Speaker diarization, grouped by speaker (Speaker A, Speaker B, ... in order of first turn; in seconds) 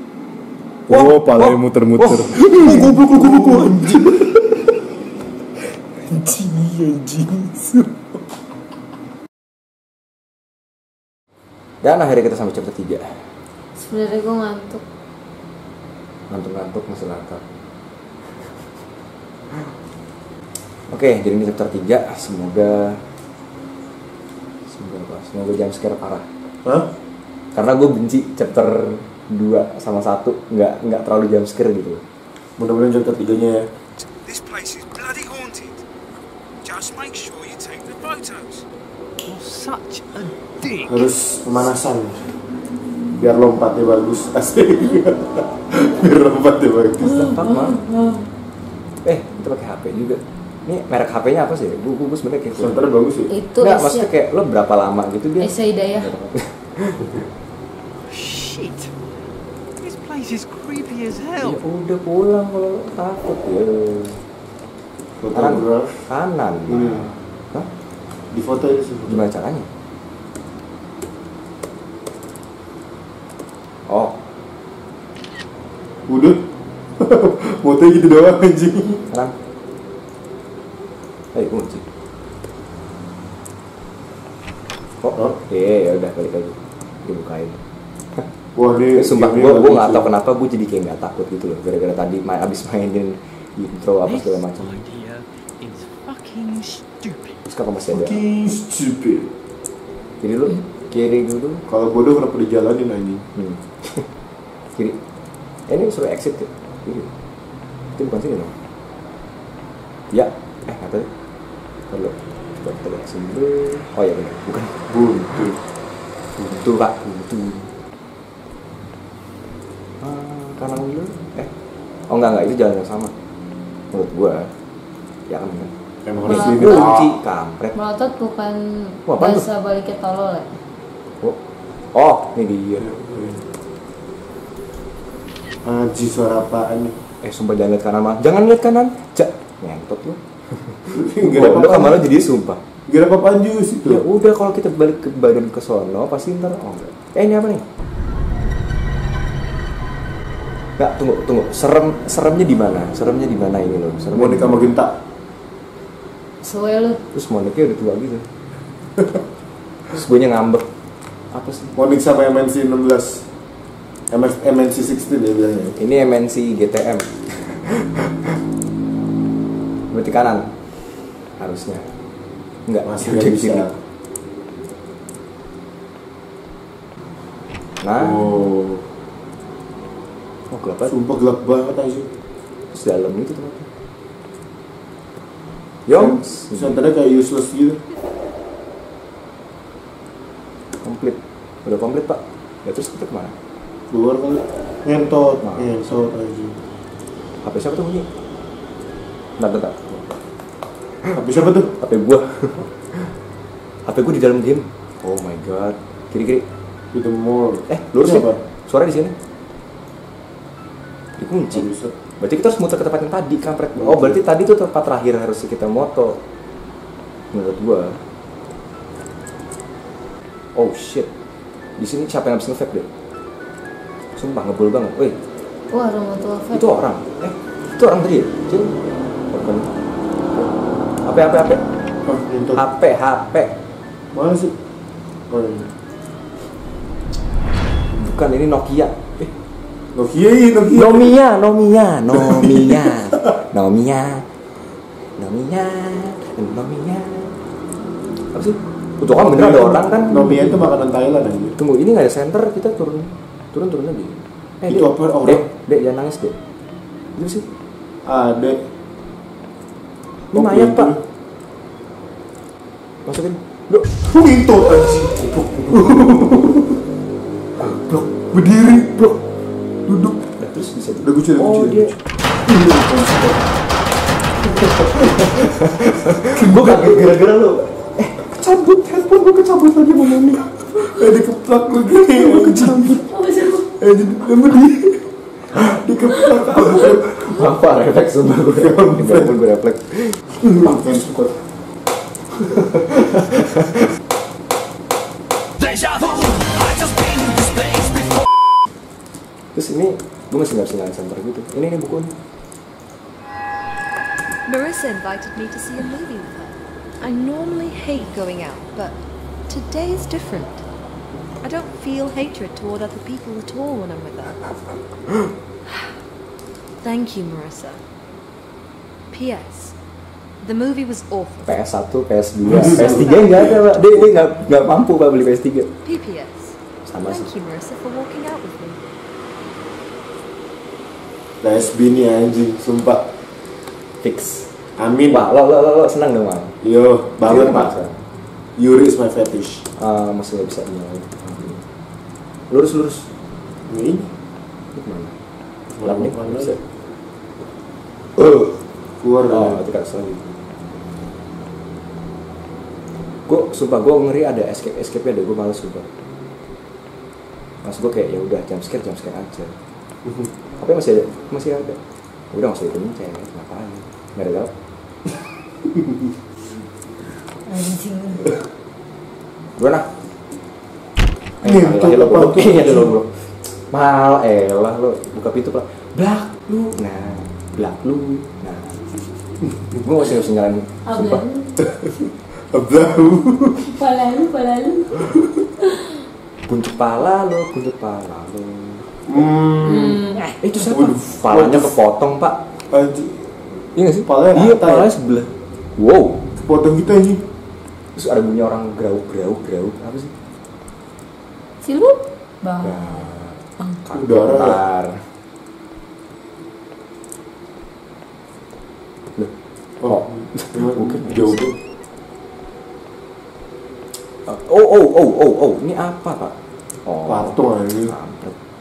Speaker A: 0.9-4.7, 6.1-8.1, 32.6-33.7, 40.8-42.3, 43.1-47.3, 52.5-53.3, 65.2-66.1, 66.7-67.1, 68.3-69.2, 76.1-76.4, 77.0-79.0, 88.5-90.1, 97.9-99.3, 101.7-103.2, 114.9-115.6, 126.0-127.1, 132.9-133.4, 135.6-136.9, 140.9-142.1, 142.9-144.0, 154.1-154.9, 161.7-163.2, 164.1-165.8, 172.8-173.7, 178.0-178.8, 180.9-182.1, 185.9-187.8, 193.9-196.6, 201.1-201.7, 206.9-208.4, 211.5-211.9, 213.8-214.2, 232.1-232.6, 234.1-234.5, 235.3-235.7, 239.9-241.1, 242.2-242.9, 249.1-251.6, 254.7-255.5, 258.0-258.6, 260.3-261.0, 264.0-266.6, 268.1-269.2, 269.9-270.2, 271.0-273.5, 276.3-277.1, 280.7-283.0, 283.8-287.0, 288.5-289.4, 290.4-291.3, 331.4-333.0, 334.8-335.2, 336.6-337.7, 338.6-339.6, 343.7-344.1, 345.7-346.6, 349.0-349.6, 371.4-372.9, 381.6-383.8, 389.1-391.8, 392.7-393.5, 394.0-394.9, 396.3-397.2, 403.9-404.6, 409.8-411.6, 417.1-417.9
Speaker B: 0.9-4.3, 11.8-13.0, 16.3-17.4, 20.9-23.0, 24.7-26.3, 27.5-32.0, 47.0-47.8, 49.0-52.8, 53.6-57.2, 61.4-64.2, 65.3-67.7, 69.1-69.7, 73.9-74.2, 81.3-81.8, 85.0-87.6, 88.9-94.8, 97.5-98.2, 100.2-101.6, 103.3-104.0, 105.7-107.1, 108.0-108.5, 110.1-111.1, 111.9-114.8, 116.4-117.7, 120.0-121.5, 122.1-123.1, 123.9-124.5, 125.3-125.7, 126.2-127.8, 129.1-129.4, 131.9-133.0, 137.2-142.6, 143.8-147.6, 150.8-154.8, 157.1-158.2, 159.9-160.7, 161.3-161.8, 165.8-167.8, 169.9-170.5, 171.4-171.8, 172.7-173.7, 177.8-178.3, 180.5-180.9, 182.7-183.7, 185.8-186.8, 190.8-193.3, 195.4-195.7, 197.4-198.1, 199.4-200.2, 201.7-203.1, 203.9-206.4, 207.7-209.1, 211.2-211.7, 212.2-216.2, 217.3-218.0, 220.5-221.1, 221.8-222.9, 224.2-225.2, 226.5-228.7, 229.3-229.7, 231.0-231.6, 232.5-233.5, 237.9-239.3, 240.7-244.2, 245.2-247.3, 248.3-250.7, 251.6-256.4, 257.1-257.4, 260.3-260.9, 263.1-263.9, 265.7-266.4, 267.6-268.1, 270.4-271.9, 274.4-280.5, 282.1-283.1, 286.4-291.2, 292.4-293.8, 299.5-302.1, 321.4-325.7, 326.8-327.3, 334.0-334.5, 335.1-336.5, 337.2-338.0, 339.8-341.6, 342.5-343.1, 344.7-345.1, 345.8-346.6, 348.2-348.5, 349.3-350.2, 353.3-355.9, 357.6-359.5, 360.5-361.8, 362.3-364.5, 369.6-369.9, 371.4-378.8, 379.8-381.2, 386.5-388.9, 390.4-392.4, 393.8-396.2, 397.9-400.1, 402.6-405.0, 409.8-411.5, 414.3-418.3
Speaker C: 13.8-14.8, 47.4-48.2, 53.3-54.1, 55.4-56.1, 126.2-126.9, 127.7-130.5, 156.4-157.0, 225.7-226.7, 283.1-283.7, 367.5-368.4, 380.9-381.6, 383.6-385.9, 389.9-390.3, 401.6-402.8
Speaker D: 34.3-35.8, 36.6-38.6
Speaker E: 39.2-41.0, 58.1-58.9, 59.8-61.6, 94.0-97.4
Speaker F: 304.4-310.6, 311.4-314.4, 316.8-317.8, 319.1-319.7, 320.4-321.5, 322.5-324.3, 325.8-328.8